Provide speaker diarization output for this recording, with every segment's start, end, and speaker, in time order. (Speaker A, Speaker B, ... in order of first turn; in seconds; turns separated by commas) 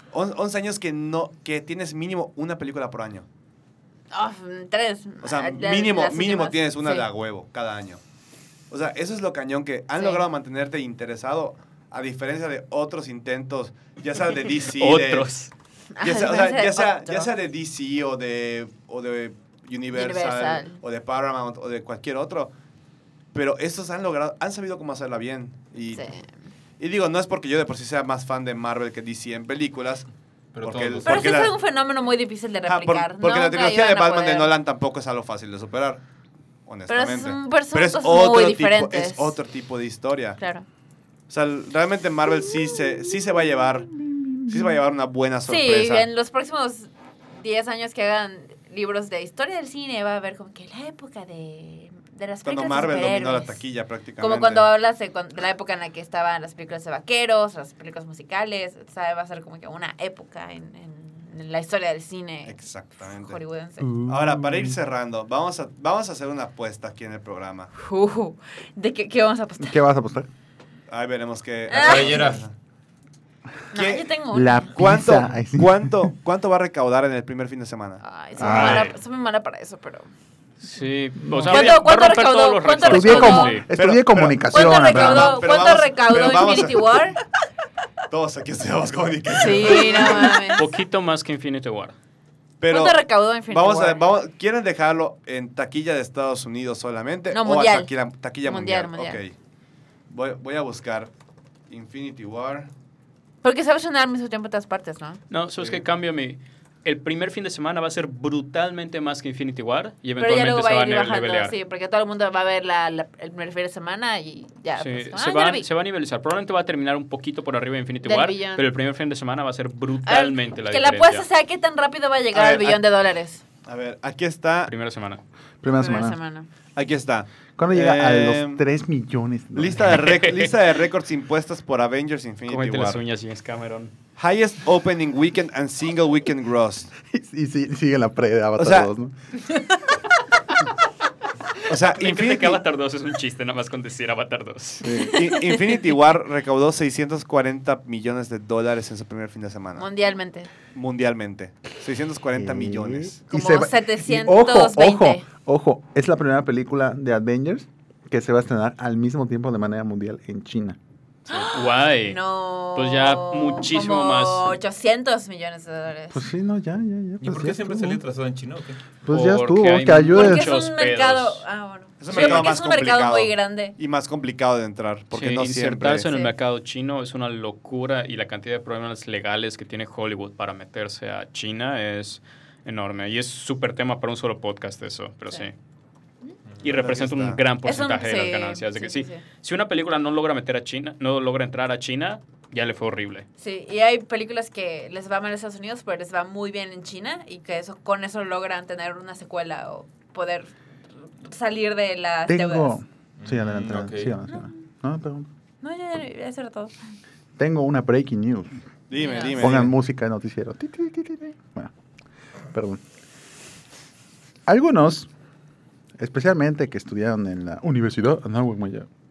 Speaker A: 0.1-3.3, Speaker B: 4.1-7.1, Speaker A: 5.2-8.0, Speaker A: 8.7-15.4, Speaker B: 9.9-10.2, Speaker C: 14.8-15.5, Speaker B: 15.9-17.3, Speaker A: 16.0-22.5, Speaker B: 19.9-20.8, Speaker A: 23.3-26.1, Speaker B: 25.9-26.3, Speaker A: 26.8-30.1, Speaker D: 30.5-31.5, Speaker A: 30.6-31.6, Speaker B: 31.1-34.5, Speaker A: 32.7-36.0, Speaker A: 36.7-40.4, Speaker B: 36.9-39.4, Speaker B: 40.4-40.6, Speaker A: 41.3-44.0, Speaker A: 44.5-46.1, Speaker B: 45.5-53.6, Speaker A: 52.5-54.7, Speaker B: 54.2-63.9, Speaker A: 62.5-63.4, Speaker E: 63.8-64.8, Speaker A: 64.1-67.7, Speaker B: 67.7-69.8, Speaker E: 69.6-70.3, Speaker A: 70.9-72.5, Speaker B: 71.7-72.4, Speaker D: 71.7-72.4, Speaker B: 73.7-74.7, Speaker A: 73.7-74.1, Speaker E: 74.3-76.1, Speaker A: 74.8-78.7, Speaker B: 78.0-80.1, Speaker E: 78.4-78.9, Speaker C: 78.4-79.0, Speaker C: 80.6-83.7, Speaker E: 81.2-81.6, Speaker B: 81.5-83.6, Speaker E: 82.8-85.5, Speaker A: 83.7-87.2, Speaker B: 84.5-87.2, Speaker A: 88.1-90.5, Speaker B: 89.4-90.7, Speaker C: 90.5-92.0, Speaker A: 92.6-99.3, Speaker B: 92.7-94.0, Speaker B: 97.3-97.9, Speaker B: 98.4-99.2, Speaker A: 100.1-101.1, Speaker A: 101.7-102.7, Speaker B: 103.4-105.2, Speaker C: 105.3-111.5, Speaker A: 105.6-105.8, Speaker B: 110.2-115.7, Speaker C: 114.8-121.3, Speaker B: 118.0-118.7, Speaker B: 120.0-123.4, Speaker A: 122.3-122.8, Speaker A: 123.7-124.7, Speaker C: 124.7-125.2, Speaker E: 125.6-126.2, Speaker B: 125.7-126.5, Speaker A: 126.8-128.6, Speaker E: 127.6-130.0, Speaker A: 129.6-133.0, Speaker C: 129.9-130.5, Speaker C: 132.5-133.9, Speaker A: 134.2-136.9, Speaker E: 137.1-139.1, Speaker A: 138.6-138.9, Speaker A: 141.7-142.6, Speaker C: 141.8-145.0, Speaker E: 144.8-145.2, Speaker A: 145.1-149.9, Speaker B: 149.8-150.5, Speaker A: 150.7-153.2, Speaker E: 152.3-160.8, Speaker B: 153.3-155.2, Speaker B: 161.3-166.3, Speaker C: 161.3-162.2, Speaker C: 162.8-164.6, Speaker E: 166.1-168.0, Speaker D: 167.2-169.0, Speaker E: 169.0-170.6, Speaker C: 169.1-171.4, Speaker B: 170.1-173.8, Speaker A: 172.0-176.1, Speaker C: 172.1-172.5, Speaker C: 175.1-185.5, Speaker B: 176.0-176.3, Speaker C: 186.6-193.3, Speaker A: 186.6-187.4, Speaker B: 187.7-189.2, Speaker B: 193.4-200.5, Speaker B: 201.2-202.8, Speaker E: 202.3-205.3, Speaker D: 203.2-204.2, Speaker B: 205.6-206.8, Speaker E: 207.4-208.6, Speaker A: 208.9-209.7, Speaker B: 208.9-209.6, Speaker E: 209.4-211.7, Speaker E: 212.5-212.8, Speaker E: 214.5-215.1, Speaker E: 216.0-218.9